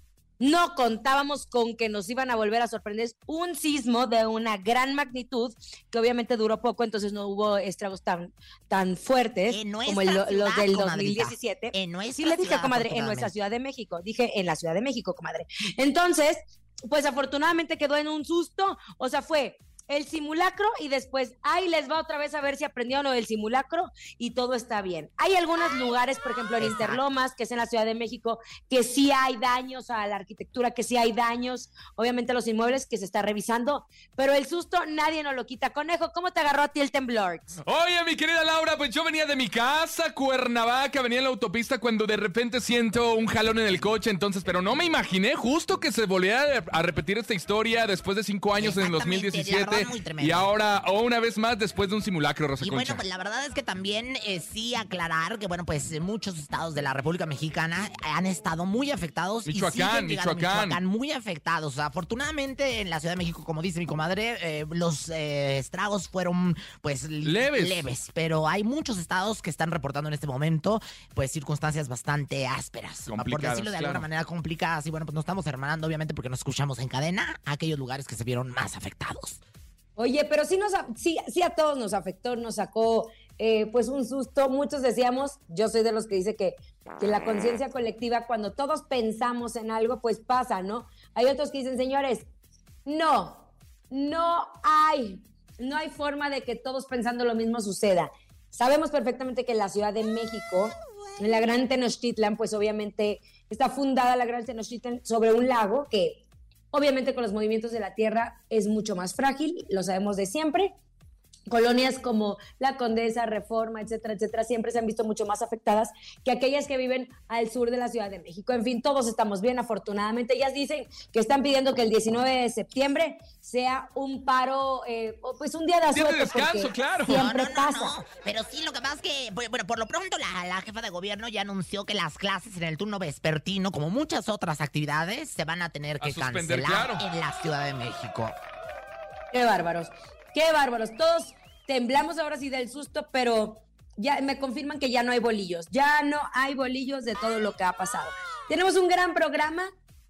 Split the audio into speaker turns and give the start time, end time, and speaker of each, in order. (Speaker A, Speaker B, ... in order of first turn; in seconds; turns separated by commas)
Speaker A: 0.4-37.6, Speaker B: 9.5-13.3, Speaker B: 26.6-27.0, Speaker C: 37.7-53.0, Speaker B: 48.6-50.5, Speaker B: 52.6-79.4, Speaker C: 59.5-60.8, Speaker C: 67.2-67.9, Speaker C: 73.1-74.0, Speaker A: 80.0-92.3, Speaker A: 92.9-106.2, Speaker A: 106.7-110.7, Speaker A: 111.5-128.0, Speaker C: 125.9-127.2, Speaker B: 127.0-138.4, Speaker C: 136.0-137.1, Speaker A: 139.3-149.7